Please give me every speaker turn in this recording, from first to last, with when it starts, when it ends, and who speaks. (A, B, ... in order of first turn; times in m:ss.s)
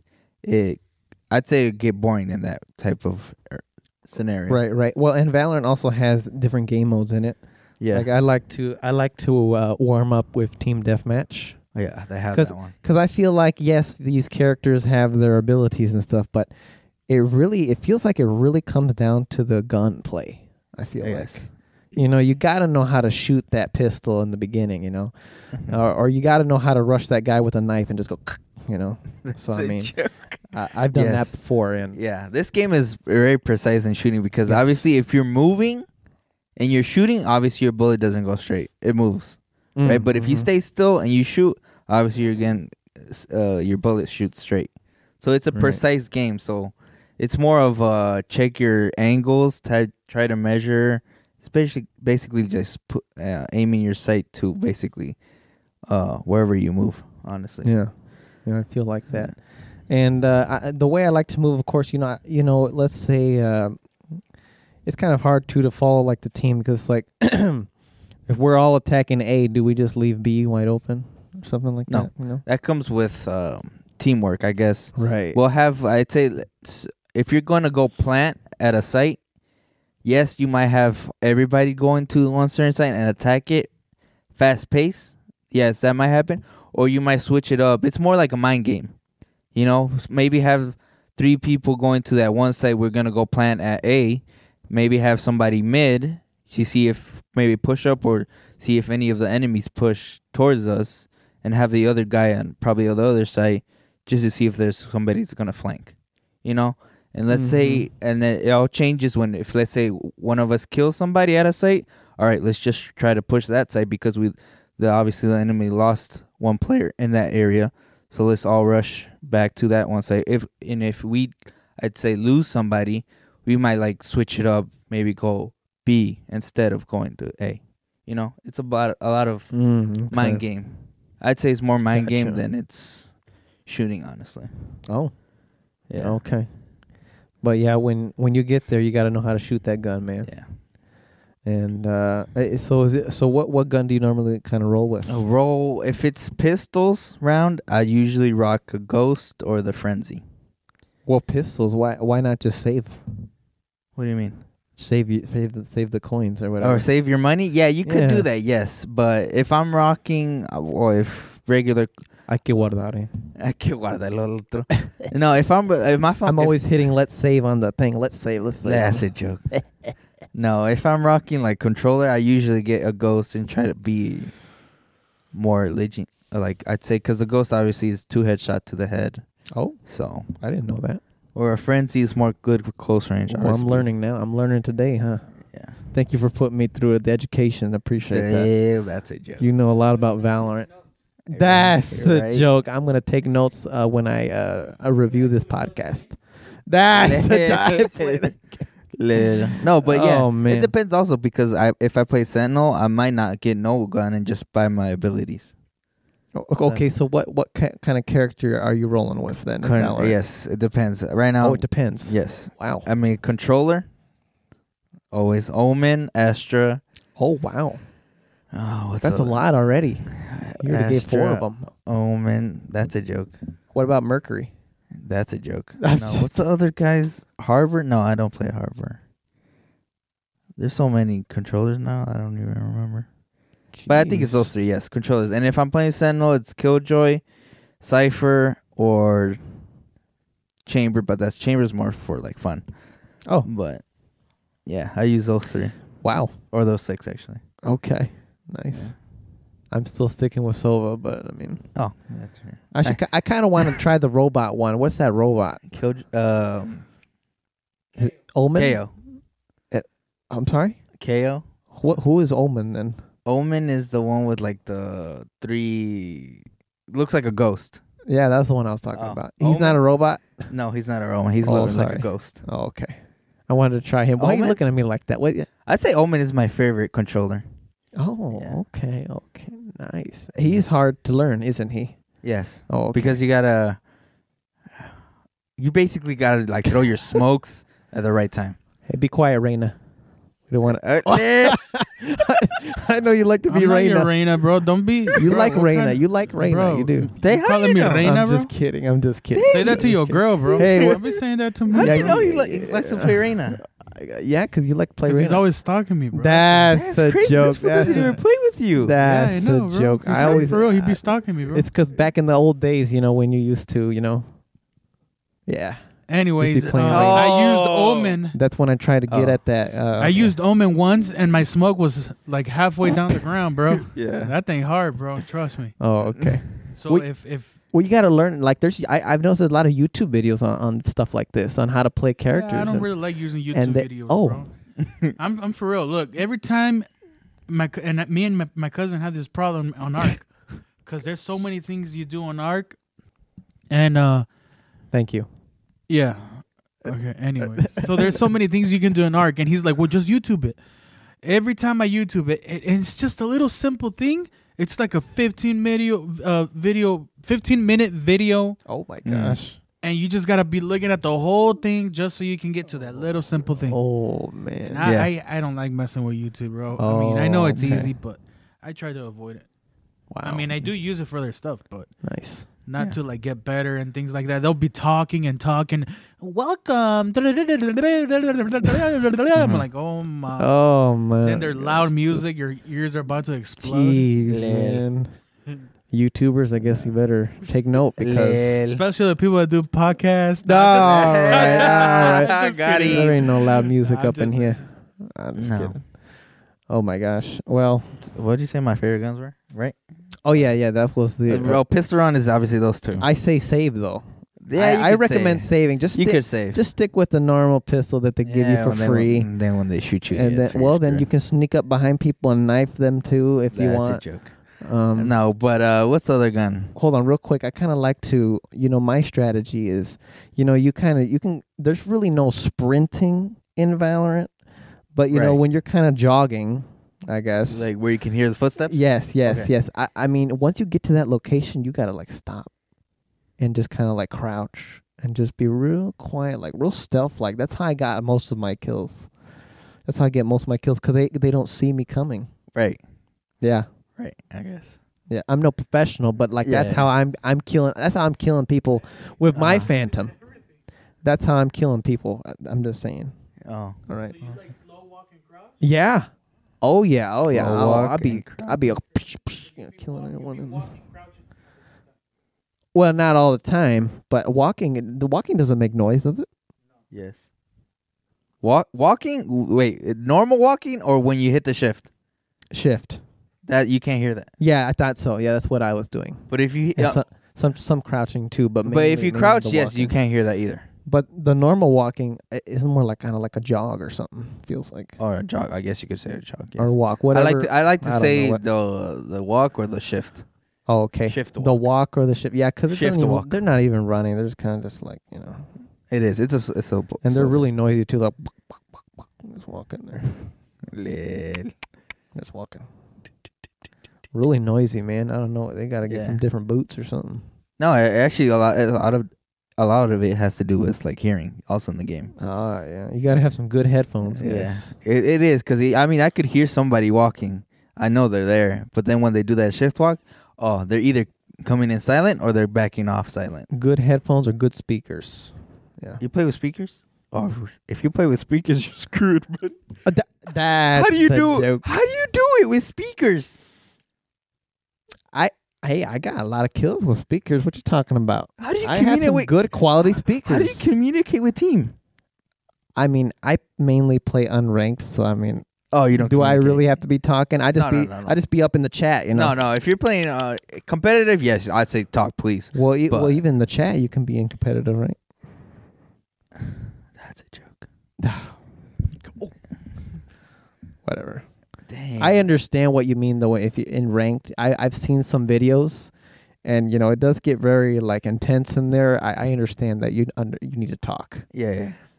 0:00.4-0:04.6 A
0:04.5-0:11.6 B
0:07.8-0:08.1 A
0:11.8-0:12.7 A
0:12.3-0:16.5 B
0:17.1-0:29.9 B
0:21.0-0:21.5 A
0:29.2-0:30.4 A
0:30.5-0:32.0 B
0:30.9-0:31.4 A
0:31.9-0:35.9 A
0:34.5-0:34.8 B
0:36.6-0:55.2 A
0:39.8-0:40.5 B
0:45.5-0:45.8 B
0:55.9-0:57.7 A
0:57.6-0:57.9 B
0:58.4-1:03.8 B
1:04.8-1:07.7 B
1:08.3-1:12.4 B
1:11.9-1:19.2 A
1:15.0-1:15.4 B
1:20.0-1:23.7 A
1:24.3-1:29.0 A
1:29.5-2:09.5 A
1:47.3-1:47.9 B
2:09.5-2:10.4 B
2:10.1-2:13.1 A
2:11.9-2:12.4 B
2:13.7-2:14.5 A
2:14.9-2:15.1 B
2:15.9-2:16.2 A
2:16.0-2:16.5 B
2:17.4-2:20.3 B
2:21.4-2:25.2 B
2:25.1-2:30.2 A
2:31.1-2:33.0 B
2:34.0-2:34.4 A
2:34.8-2:36.9 B
2:36.6-2:41.9 A
2:37.8-2:38.3 B
2:42.3-2:43.1 B
2:43.4-2:46.6 A
2:46.2-2:49.6 B
2:48.6-2:49.5 A
2:50.3-2:54.4 A
2:55.3-2:59.2 A
2:59.5-2:59.8 B
2:59.8-3:00.3 A
3:00.4-3:01.0 B
3:01.4-3:03.9 A
3:03.3-3:05.3 B
3:05.9-3:08.5 B
3:08.1-3:09.4 A
3:09.4-3:10.7 B
3:11.3-3:12.5 A
3:11.3-3:18.6 B
3:16.9-3:18.4 A
3:18.9-3:25.5 A
3:19.2-3:20.7 B
3:26.4-3:30.2 B
3:29.6-3:33.9 A
3:31.4-3:32.9 B
3:35.1-3:36.8 A
3:37.2-3:37.8 B
3:38.5-3:39.4 A
3:39.0-3:41.7 B
3:40.1-3:43.4 A
3:43.7-3:44.5 B
3:45.0-3:49.0 A
3:45.8-3:46.4 B
3:50.6-3:53.1 A
3:53.7-3:54.5 B
3:53.9-3:57.2 A
3:57.8-3:59.4 A
4:00.6-4:02.6 A
4:03.4-4:03.8 A
4:04.7-4:05.8 A
4:06.0-4:06.3 B
4:06.5-4:07.4 A
4:07.6-4:09.0 B
4:09.7-4:11.6 B
4:11.8-4:13.0 A
4:12.7-4:15.6 B
4:15.7-4:16.8 A
4:18.0-4:18.8 B
4:18.6-4:18.9 A
4:19.7-4:20.8 B
4:21.0-4:21.4 A
4:21.7-4:23.0 B
4:23.2-4:27.8 A
4:28.1-4:30.5 B
4:29.0-4:29.8 A
4:30.5-4:32.4 A
4:31.4-4:33.0 B
4:33.5-4:35.5 B
4:34.2-4:34.6 A
4:35.7-4:37.5 A
4:38.0-4:42.0 B
4:38.3-4:38.6 A
4:42.2-4:43.8 A
4:42.7-4:43.2 B
4:45.6-4:48.6 A
4:48.9-4:49.8 B
4:50.5-4:54.1 B
4:50.6-4:51.6 A
4:53.5-4:58.5 C
4:55.2-4:57.1 B
4:57.2-4:58.1 A
4:58.0-5:01.0 B
4:59.3-4:59.9 A
4:59.5-5:02.2 C
5:00.5-5:00.8 A
5:01.7-5:03.6 A
5:01.8-5:05.4 B
5:05.1-5:06.8 C
5:06.1-5:08.2 B
5:06.7-5:09.0 A
5:07.8-5:08.2 C
5:08.8-5:14.3 B
5:09.0-5:11.7 C
5:10.2-5:10.5 A
5:15.5-5:15.8 B
5:16.1-5:18.4 C
5:16.4-5:17.2 B
5:16.6-5:18.2 A
5:18.3-5:20.3 B
5:19.1-5:19.4 A
5:20.0-5:25.8 C
5:23.9-5:24.3 A
5:25.8-5:27.1 B
5:26.7-5:27.5 C
5:27.7-5:32.9 B
5:32.3-5:34.5 C
5:33.5-5:34.4 B
5:34.8-5:35.1 A
5:35.2-5:36.9 C
5:37.5-5:40.3 C
5:40.8-5:42.8 C
5:43.7-5:44.3 C
5:44.9-5:45.3 B
5:45.9-5:50.6 C
5:47.6-5:48.2 B
5:51.2-5:58.6 C
5:58.7-5:59.6 B
5:59.0-5:59.4 A
5:59.8-6:03.8 C
6:03.7-6:04.8 B
6:04.7-6:09.5 C
6:04.8-6:05.1 A
6:06.8-6:07.9 B
6:10.1-6:10.6 B
6:10.2-6:11.9 C
6:12.0-6:12.5 B
6:12.7-6:20.6 C
6:19.4-6:19.6 A
6:20.4-6:22.3 B
6:21.2-6:24.1 C
6:23.6-6:25.1 B
6:24.3-6:24.8 A
6:25.9-6:28.6 B
6:28.0-6:28.8 A
6:28.7-6:34.6 C
6:30.4-6:35.9 B
6:30.8-6:33.2 A
6:35.4-6:35.8 A
6:36.7-6:38.0 B
6:38.0-6:39.8 A
6:40.2-6:41.6 B
6:41.3-6:43.1 A
6:43.0-6:49.3 B
6:44.4-6:46.6 A
6:48.2-6:51.1 A
6:50.1-6:54.0 B
6:53.5-6:54.3 A
6:54.6-6:55.1 B
6:55.0-6:56.7 A
6:56.8-7:04.3 B
7:04.9-7:07.7 B
7:05.1-7:05.4 A
7:07.5-7:09.5 A
7:08.7-7:12.5 B
7:13.4-7:19.1 B
7:19.9-7:22.3 B
7:22.6-7:22.8 A
7:23.4-7:23.7 B
7:24.0-7:24.8 A
7:25.1-7:30.2 B
7:26.4-7:26.9 A
7:29.3-7:29.7 A
7:31.0-7:33.1 B
7:33.4-7:34.4 A
7:33.9-7:34.3 B
7:35.6-7:36.1 B
7:36.6-7:40.8 B
7:37.2-7:38.6 A
7:42.7-7:46.3 B
7:46.9-7:47.2 A
7:48.4-7:51.9 A
7:52.5-7:53.0 B
7:53.4-7:54.3 A
7:54.4-7:59.9 B
7:56.3-7:57.0 A
7:58.6-8:00.7 A
8:00.9-8:05.0 B
8:05.0-8:10.2 A
8:06.6-8:08.4 B
8:10.7-8:15.5 B
8:11.1-8:11.6 A
8:12.7-8:13.4 A
8:15.9-8:17.5 A
8:17.0-8:20.2 B
8:20.7-8:21.5 A
8:22.2-8:22.7 B
8:24.1-8:27.2 B
8:25.9-8:26.2 A
8:27.6-8:32.1 A
8:32.2-8:34.7 B
8:34.1-8:43.5 A
8:43.5-8:46.0 B
8:46.0-8:49.6 A
8:49.8-8:51.6 B
8:50.7-8:53.3 A
8:55.1-9:00.8 B
8:58.4-8:59.4 A
8:59.9-9:01.8 A
9:02.8-9:09.4 B
9:05.7-9:06.6 A
9:07.6-9:08.2 A
9:09.1-9:13.2 A
9:12.5-9:15.0 B
9:17.0-9:17.7 A
9:18.0-9:18.4 B
9:20.8-9:21.2 B
9:21.7-9:22.3 A
9:22.0-9:25.9 B
9:26.4-9:31.3 B
9:31.3-9:31.8 A